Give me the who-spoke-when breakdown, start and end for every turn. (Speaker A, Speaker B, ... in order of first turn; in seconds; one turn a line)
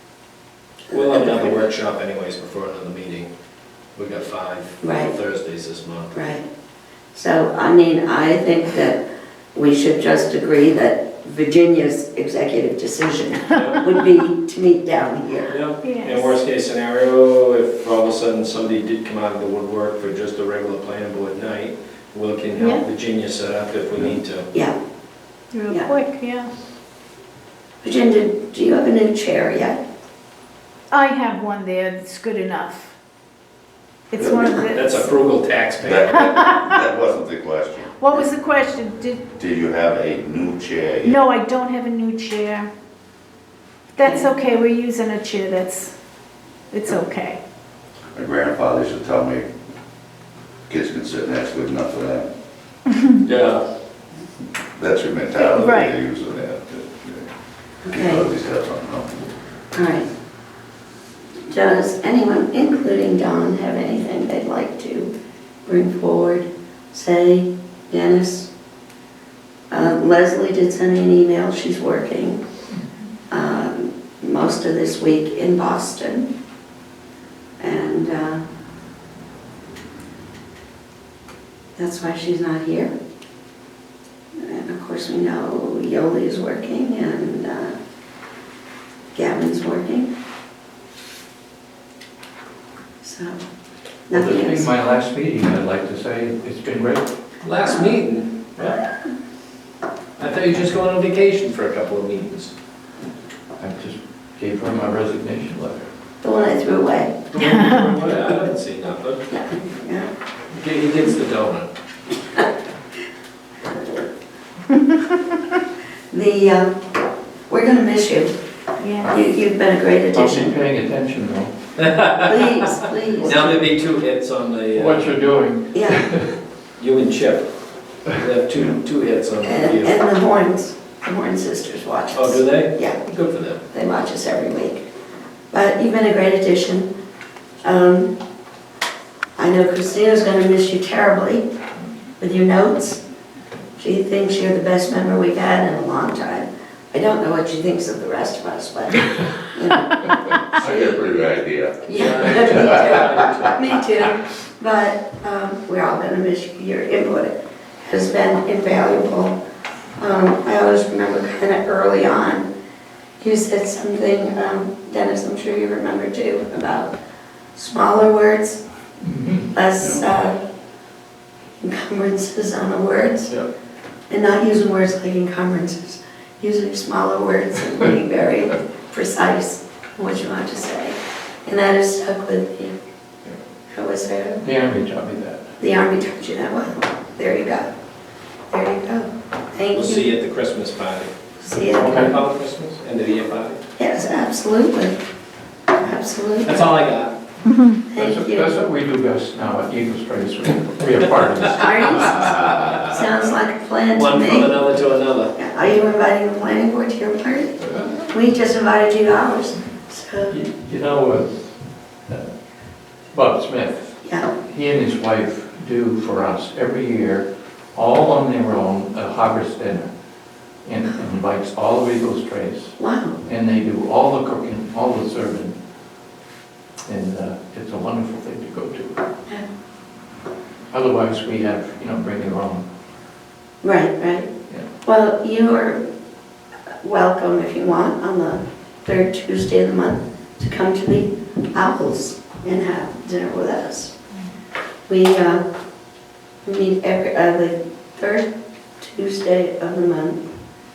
Speaker A: 0.9-1.6
Speaker B: 0.9-3.3
Speaker B: 4.0-6.2
Speaker A: 4.8-5.1
Speaker A: 6.1-6.4
Speaker A: 7.1-9.0
Speaker A: 9.5-15.6
Speaker B: 13.5-13.8
Speaker B: 15.5-24.5
Speaker C: 15.8-16.3
Speaker C: 22.6-22.8
Speaker C: 25.5-26.5
Speaker A: 27.8-29.8
Speaker C: 30.9-32.9
Speaker C: 34.1-35.1
Speaker D: 34.2-34.5
Speaker A: 34.3-34.7
Speaker B: 34.7-36.4
Speaker D: 35.8-38.1
Speaker C: 36.2-36.8
Speaker C: 38.0-39.2
Speaker D: 39.3-41.2
Speaker C: 41.0-42.7
Speaker C: 44.0-45.9
Speaker A: 44.0-44.3
Speaker C: 46.7-47.4
Speaker D: 48.1-49.5
Speaker D: 50.7-52.3
Speaker B: 53.2-53.6
Speaker D: 54.8-57.3
Speaker C: 55.4-55.9
Speaker A: 57.9-58.3
Speaker D: 57.9-59.3
Speaker A: 59.7-60.1
Speaker A: 61.5-65.1
Speaker A: 65.7-68.5
Speaker A: 69.7-72.4
Speaker A: 73.3-76.3
Speaker A: 77.6-78.5
Speaker A: 81.8-82.9
Speaker A: 84.4-87.8
Speaker A: 89.1-90.1
Speaker A: 93.0-93.4
Speaker A: 94.1-94.7
Speaker E: 94.1-97.1
Speaker B: 97.4-98.8
Speaker B: 100.2-102.5
Speaker E: 103.6-105.9
Speaker A: 106.2-107.2
Speaker B: 107.3-109.2
Speaker C: 107.4-107.8
Speaker A: 109.3-110.1
Speaker B: 110.5-111.7
Speaker A: 116.1-116.8
Speaker A: 117.5-118.3
Speaker C: 118.8-119.2
Speaker A: 119.0-120.6
Speaker E: 120.1-121.5
Speaker B: 121.8-122.7
Speaker A: 122.2-123.6
Speaker E: 123.2-123.6
Speaker B: 123.2-125.2
Speaker E: 124.7-126.3
Speaker A: 125.7-126.1
Speaker B: 126.8-127.4
Speaker B: 128.1-129.9
Speaker A: 129.4-133.0
Speaker B: 132.1-133.6
Speaker A: 133.7-134.9
Speaker A: 135.5-136.9
Speaker A: 137.6-138.1
Speaker A: 139.4-141.5
Speaker A: 142.2-143.0
Speaker A: 143.8-150.1
Speaker D: 150.5-152.6
Speaker A: 151.9-159.4
Speaker B: 151.9-153.8
Speaker A: 160.0-162.5
Speaker A: 163.2-166.9
Speaker A: 167.5-168.6
Speaker E: 169.0-169.5
Speaker A: 169.5-170.4
Speaker A: 171.6-173.3
Speaker A: 174.1-182.8
Speaker A: 183.7-184.4
Speaker E: 184.4-185.5
Speaker A: 185.6-187.7
Speaker A: 188.5-190.1
Speaker B: 189.7-191.1
Speaker A: 191.4-192.2
Speaker B: 191.8-193.6
Speaker E: 191.8-192.2
Speaker A: 193.8-195.0
Speaker A: 195.8-196.8
Speaker B: 196.4-197.1
Speaker C: 197.5-197.8
Speaker A: 197.9-198.5
Speaker E: 197.9-202.4
Speaker A: 201.6-204.6
Speaker B: 203.9-205.3
Speaker A: 205.3-207.6
Speaker E: 207.6-208.1
Speaker A: 208.1-210.4
Speaker E: 210.3-211.4
Speaker E: 213.1-219.9
Speaker A: 214.0-214.3
Speaker E: 220.7-225.6
Speaker A: 222.8-223.2
Speaker E: 226.9-229.0
Speaker E: 230.7-232.7
Speaker A: 233.6-234.3
Speaker A: 234.8-235.8
Speaker A: 236.8-243.9
Speaker A: 244.9-245.4
Speaker A: 246.5-250.2